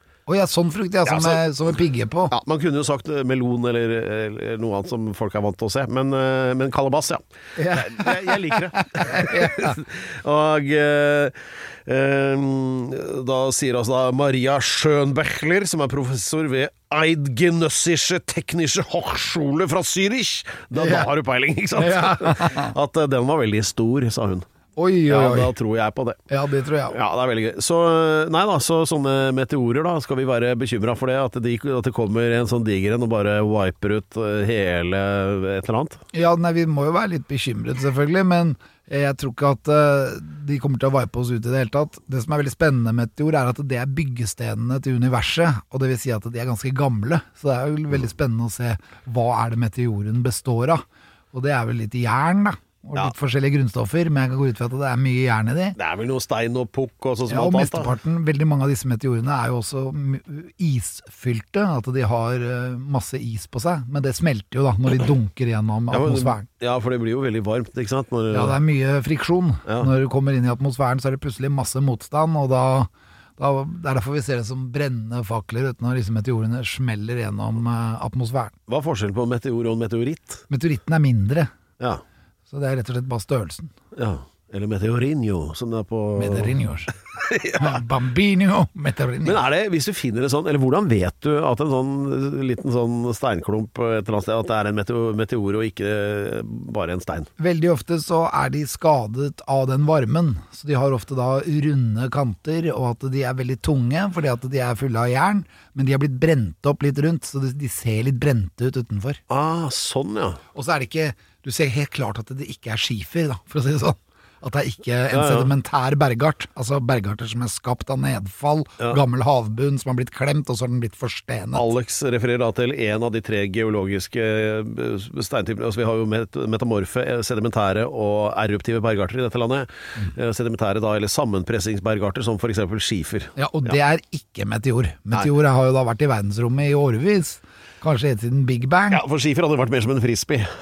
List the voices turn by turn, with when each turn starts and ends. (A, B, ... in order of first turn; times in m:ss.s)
0:00.3-0:02.3 A
0:01.0-0:01.4 B
0:02.3-0:24.5 B
0:07.6-0:09.8 A
0:20.8-0:21.1 A
0:21.8-0:22.8 A
0:24.8-0:25.5 A
0:25.1-0:26.2 B
0:26.3-0:27.0 A
0:26.9-0:36.0 B
0:36.1-0:55.8 A
0:55.8-0:58.0 B
0:57.3-1:06.5 A
1:05.9-1:08.6 B
1:08.3-1:18.6 A
1:18.7-1:20.4 B
1:20.5-1:21.5 A
1:22.5-1:23.7 A
1:24.0-1:26.5 B
1:26.2-1:26.9 A
1:27.2-1:27.8 B
1:27.5-1:29.4 A
1:29.2-1:37.3 B
1:37.4-1:49.2 A
1:49.3-1:50.4 B
1:50.5-2:01.7 A
1:55.1-1:55.5 B
2:01.5-2:13.7 B
2:13.4-2:19.0 A
2:18.9-2:20.5 B